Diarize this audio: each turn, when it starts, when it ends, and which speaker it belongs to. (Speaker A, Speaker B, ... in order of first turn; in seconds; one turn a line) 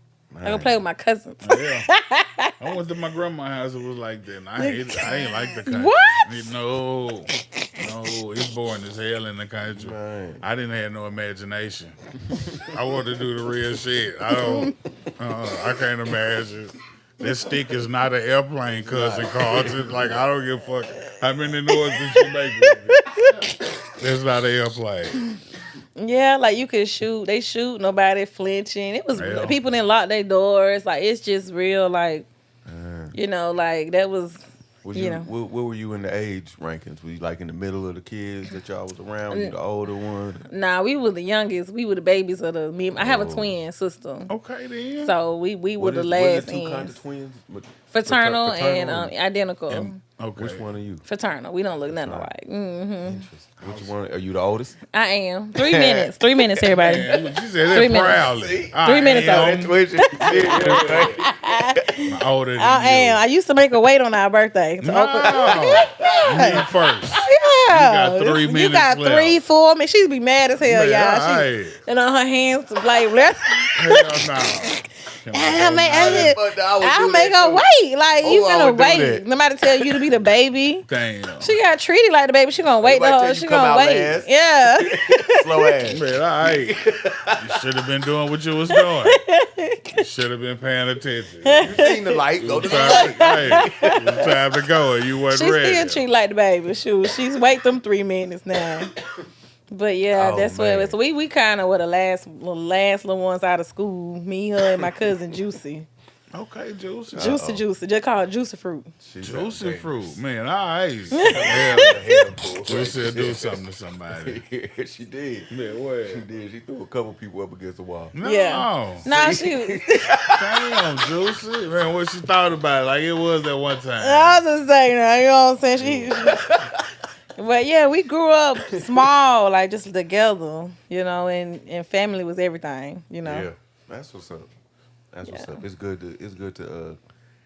Speaker A: 0.3-0.8
Speaker B: 0.4-2.8
Speaker C: 1.4-1.9
Speaker C: 2.6-12.0
Speaker B: 4.6-6.5
Speaker A: 9.7-10.4
Speaker C: 12.5-23.3
Speaker A: 18.7-20.2
Speaker B: 21.7-23.5
Speaker C: 23.9-25.2
Speaker B: 25.9-32.3
Speaker C: 29.1-29.6
Speaker A: 32.6-33.1
Speaker B: 33.1-34.4
Speaker A: 34.8-40.5
Speaker B: 34.9-35.3
Speaker B: 39.3-39.5
Speaker B: 40.5-44.3
Speaker A: 42.9-43.5
Speaker C: 44.3-45.1
Speaker B: 45.0-47.0
Speaker A: 45.8-49.1
Speaker B: 47.9-50.0
Speaker C: 49.7-50.7
Speaker A: 50.4-51.0
Speaker B: 51.0-53.2
Speaker A: 51.9-52.3
Speaker A: 53.0-54.8
Speaker C: 53.6-53.9
Speaker B: 54.9-66.6
Speaker A: 55.5-57.2
Speaker C: 56.8-61.2
Speaker A: 58.1-62.1
Speaker C: 62.1-63.2
Speaker C: 64.8-69.4
Speaker A: 65.2-66.7
Speaker B: 67.1-74.7
Speaker C: 70.6-71.8
Speaker C: 73.7-76.4
Speaker B: 75.3-80.8
Speaker A: 75.8-77.7
Speaker A: 78.2-80.1
Speaker C: 80.9-81.6
Speaker B: 81.4-85.7
Speaker A: 82.8-87.5
Speaker C: 85.9-86.7
Speaker C: 87.3-89.2
Speaker B: 88.7-90.0
Speaker C: 89.9-91.7
Speaker B: 91.4-94.3
Speaker A: 91.6-94.4
Speaker C: 92.3-96.0
Speaker B: 95.3-98.9
Speaker B: 99.7-105.9
Speaker C: 100.1-100.9
Speaker A: 104.7-104.9
Speaker C: 106.3-107.3
Speaker A: 107.1-107.6
Speaker B: 107.1-108.9
Speaker A: 109.0-110.2
Speaker C: 109.2-112.0
Speaker A: 111.1-115.5
Speaker B: 111.1-112.2
Speaker C: 112.6-114.4
Speaker C: 115.5-116.2
Speaker A: 116.1-118.1
Speaker C: 118.1-119.1
Speaker B: 118.2-120.1
Speaker A: 119.0-121.0
Speaker C: 120.3-124.4
Speaker B: 124.0-126.5
Speaker A: 125.8-126.8
Speaker B: 127.3-133.5
Speaker A: 128.7-129.0
Speaker A: 133.2-134.5
Speaker A: 135.1-137.0
Speaker B: 135.3-135.6